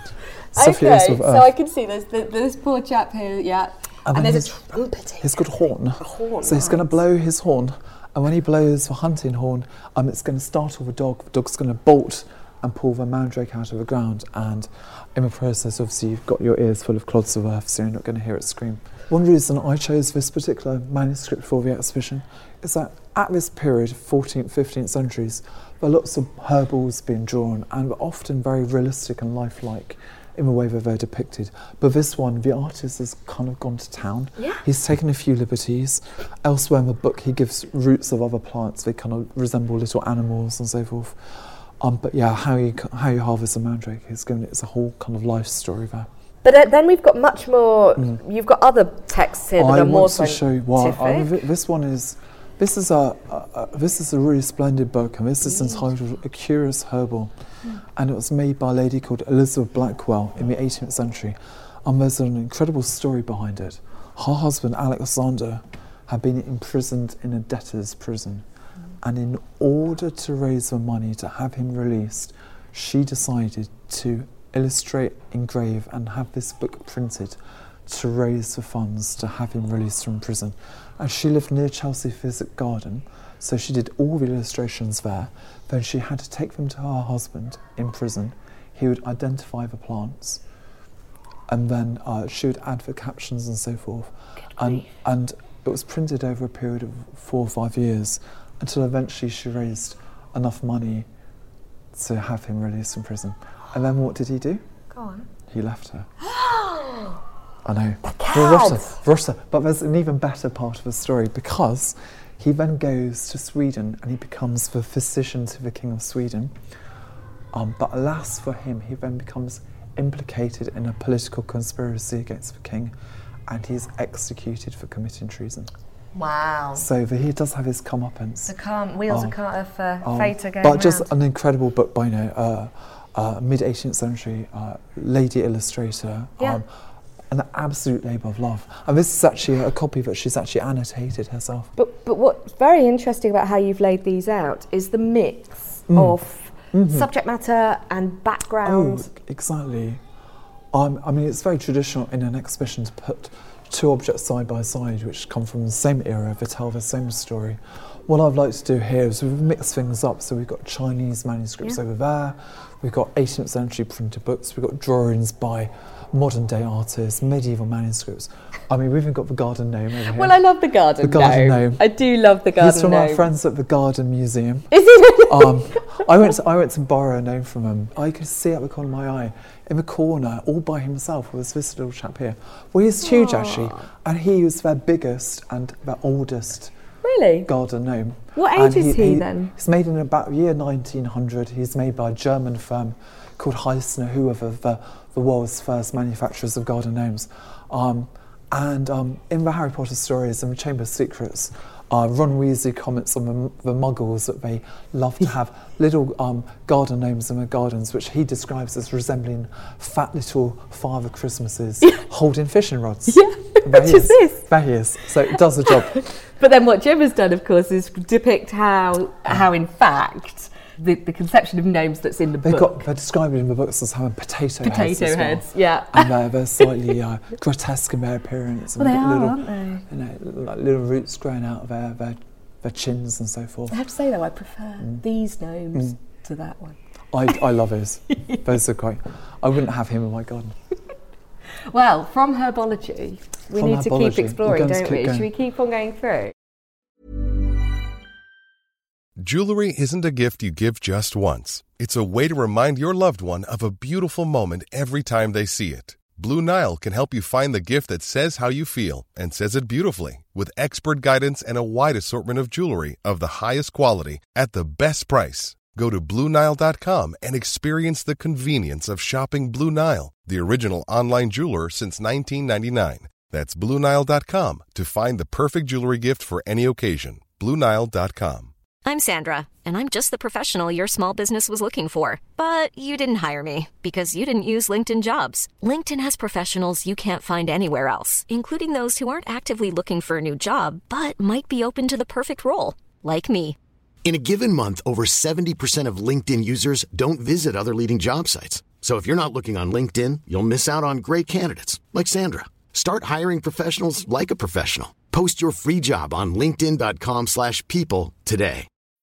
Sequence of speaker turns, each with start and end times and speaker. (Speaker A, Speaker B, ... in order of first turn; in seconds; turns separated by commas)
Speaker A: 0.5-1.5, Speaker B: 0.5-6.9, Speaker A: 4.1-4.6, Speaker A: 5.2-46.1, Speaker B: 34.4-34.6, Speaker B: 46.4-51.4, Speaker A: 49.6-57.3, Speaker A: 58.0-68.5, Speaker A: 69.0-90.4, Speaker A: 91.5-101.1, Speaker B: 94.6-94.9, Speaker A: 101.9-104.6, Speaker B: 104.9-105.3, Speaker A: 105.5-106.1, Speaker B: 106.2-107.2, Speaker A: 107.6-116.6, Speaker B: 108.0-109.0, Speaker A: 117.5-123.0, Speaker A: 123.5-125.7, Speaker B: 126.2-126.9, Speaker A: 126.8-128.5, Speaker B: 128.5-131.1, Speaker A: 129.1-129.4, Speaker A: 130.0-136.7, Speaker A: 137.3-141.7, Speaker B: 141.8-149.1, Speaker A: 145.9-146.2, Speaker A: 146.7-147.1, Speaker A: 148.6-150.0, Speaker A: 150.7-170.4, Speaker B: 170.1-173.3, Speaker A: 171.0-171.8, Speaker A: 172.6-174.7, Speaker B: 174.7-176.0, Speaker A: 175.3-186.7, Speaker B: 183.0-183.8, Speaker B: 187.0-187.5, Speaker A: 187.5-216.0, Speaker B: 188.4-189.5, Speaker B: 213.1-214.5, Speaker B: 215.7-222.8, Speaker A: 222.4-233.8, Speaker B: 224.6-226.1, Speaker B: 228.8-229.8, Speaker B: 233.7-236.8, Speaker A: 237.1-240.6, Speaker B: 241.7-246.3, Speaker A: 243.5-245.3, Speaker C: 249.2-278.5, Speaker D: 278.9-293.6, Speaker E: 294.1-308.7